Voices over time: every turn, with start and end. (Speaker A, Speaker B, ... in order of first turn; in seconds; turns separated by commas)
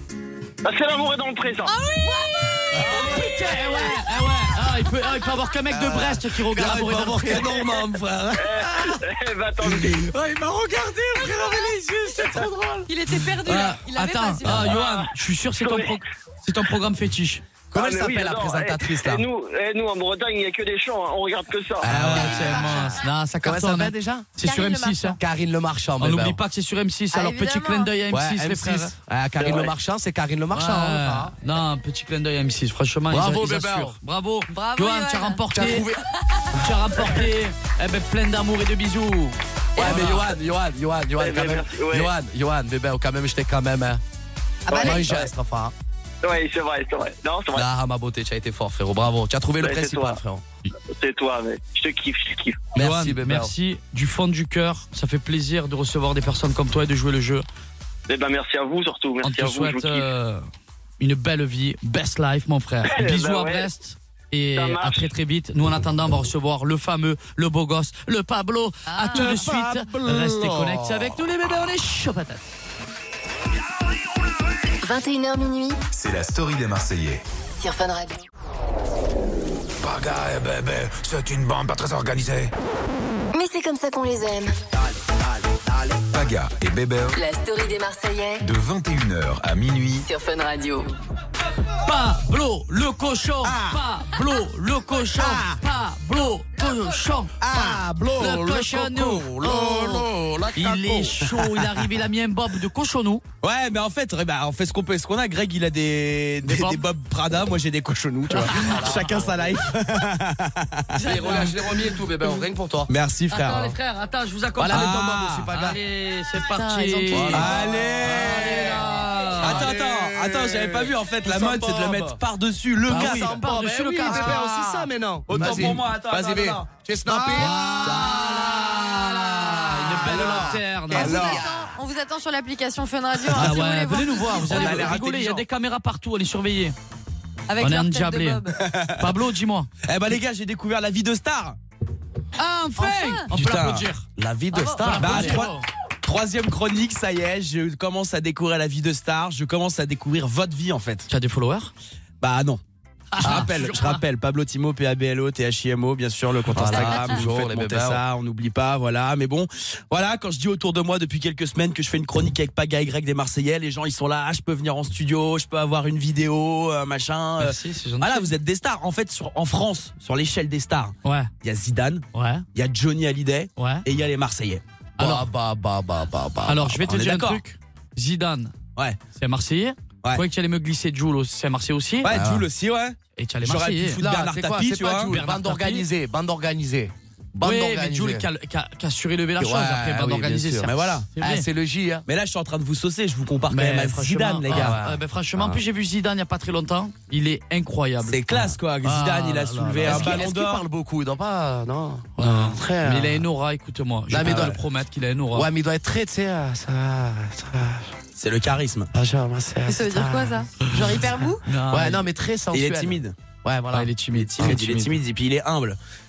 Speaker A: 0.6-1.7, Speaker B: 1.7-3.2, Speaker C: 2.7-3.3, Speaker D: 2.7-7.7, Speaker C: 5.7-9.0, Speaker A: 8.3-10.1, Speaker C: 9.6-10.1, Speaker D: 9.7-17.4, Speaker B: 12.9-14.8, Speaker A: 14.6-16.0, Speaker C: 17.7-19.2, Speaker A: 17.7-21.9, Speaker C: 21.8-24.3, Speaker D: 21.8-25.2, Speaker B: 22.2-22.9, Speaker B: 24.4-25.2, Speaker C: 25.2-26.4, Speaker D: 26.0-28.9, Speaker B: 27.1-27.9, Speaker C: 28.1-31.3, Speaker A: 29.4-29.7, Speaker D: 30.5-35.9, Speaker C: 33.1-34.0, Speaker B: 34.5-35.5, Speaker C: 35.5-36.0, Speaker D: 36.5-40.3, Speaker C: 39.8-44.0, Speaker A: 41.2-42.1, Speaker B: 44.7-45.2, Speaker C: 44.7-45.7, Speaker A: 46.2-47.7, Speaker C: 47.5-50.4, Speaker A: 49.6-50.2, Speaker A: 50.9-52.7, Speaker C: 52.7-53.5, Speaker D: 52.8-57.5, Speaker A: 58.1-60.0, Speaker D: 59.2-60.4, Speaker D: 61.0-72.4, Speaker A: 62.8-63.7, Speaker A: 64.5-65.1, Speaker B: 68.9-69.5, Speaker C: 69.1-71.2, Speaker E: 74.8-75.8, Speaker F: 75.9-77.2, Speaker E: 77.6-78.2, Speaker F: 79.8-82.5, Speaker E: 83.3-84.5, Speaker F: 86.1-87.2, Speaker E: 87.1-88.5, Speaker F: 88.4-90.1, Speaker E: 90.0-90.9, Speaker D: 91.8-103.2, Speaker C: 95.2-95.5, Speaker C: 97.4-101.3, Speaker G: 103.4-111.0, Speaker D: 106.4-106.8, Speaker C: 108.3-109.7, Speaker D: 108.3-109.0, Speaker D: 111.0-112.4, Speaker C: 111.0-112.9, Speaker G: 112.9-113.7, Speaker D: 113.3-119.7, Speaker C: 114.6-115.8, Speaker G: 114.7-115.5, Speaker B: 116.3-117.6, Speaker C: 117.1-122.2, Speaker G: 117.3-118.3, Speaker G: 119.4-123.4, Speaker C: 122.8-131.7, Speaker D: 122.8-124.8, Speaker G: 125.3-126.7, Speaker D: 125.4-125.8, Speaker D: 127.2-131.3, Speaker G: 130.1-130.5, Speaker B: 130.9-135.0, Speaker G: 131.0-131.4, Speaker D: 133.3-136.8, Speaker G: 134.4-135.4, Speaker B: 137.5-138.6, Speaker D: 137.6-138.4, Speaker G: 138.7-138.9, Speaker D: 139.0-139.7, Speaker G: 139.9-141.6, Speaker D: 142.4-144.1, Speaker B: 142.8-143.3, Speaker G: 143.3-143.9, Speaker C: 144.2-145.5, Speaker B: 144.5-145.2, Speaker D: 144.8-145.7, Speaker G: 145.0-145.5, Speaker G: 146.0-151.1, Speaker D: 151.1-151.7, Speaker G: 152.2-152.6, Speaker D: 153.1-154.0, Speaker G: 153.2-174.6, Speaker C: 156.5-158.0, Speaker D: 167.4-168.3, Speaker D: 171.0-171.3, Speaker D: 172.1-172.4, Speaker D: 173.6-173.8, Speaker D: 175.0-175.3, Speaker C: 175.0-176.9, Speaker D: 176.4-178.6, Speaker G: 176.8-177.4, Speaker D: 179.1-182.2, Speaker G: 182.0-185.1, Speaker C: 182.1-182.5, Speaker D: 183.2-184.0, Speaker C: 184.0-188.3, Speaker D: 185.0-185.9, Speaker D: 187.4-191.5, Speaker C: 189.4-192.1, Speaker G: 190.7-191.1, Speaker G: 192.1-194.8, Speaker D: 193.5-200.3, Speaker C: 194.5-195.6, Speaker G: 198.0-200.6, Speaker C: 199.8-203.2, Speaker D: 202.2-205.5, Speaker C: 204.1-204.6, Speaker C: 205.3-207.9, Speaker G: 208.2-208.9, Speaker C: 208.9-213.9, Speaker B: 209.7-211.4, Speaker D: 211.4-212.1, Speaker G: 212.5-213.1, Speaker D: 213.7-215.0, Speaker G: 214.1-215.8